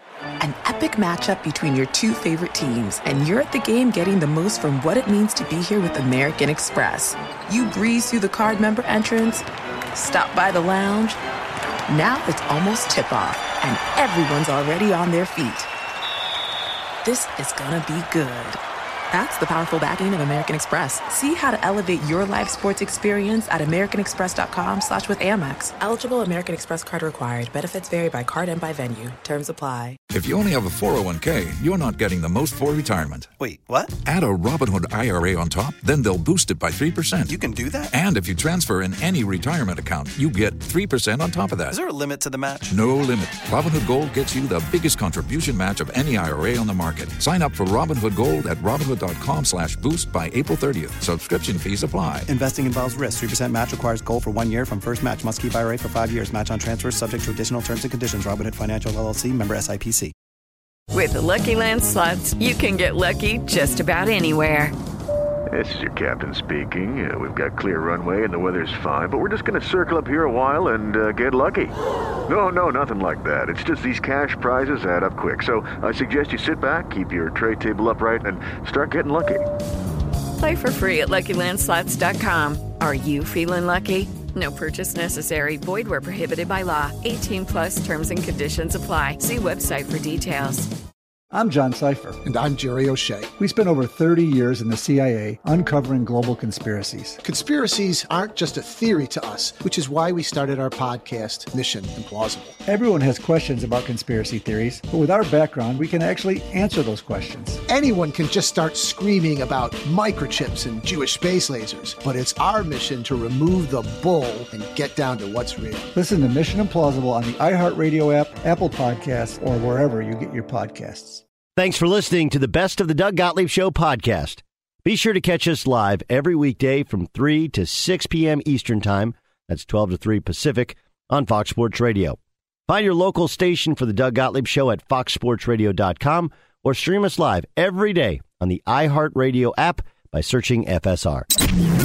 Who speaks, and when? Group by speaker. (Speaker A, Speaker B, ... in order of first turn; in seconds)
Speaker A: 0.4-11.2, 11.9-15.7, 17.0-18.6, 19.1-30.0
Speaker B: 30.1-33.3, 34.0-37.4, 37.9-41.8, 42.7-52.3
Speaker C: 33.4-33.9, 37.3-37.9, 41.7-42.7, 52.3-60.1
Speaker D: 60.9-64.7, 80.4-90.7
Speaker E: 65.5-71.8, 72.3-79.5
Speaker F: 91.3-92.2, 93.4-97.2, 102.7-107.6, 115.9-121.2
Speaker G: 92.2-93.3, 97.2-102.5, 107.7-115.9
Speaker H: 121.5-141.3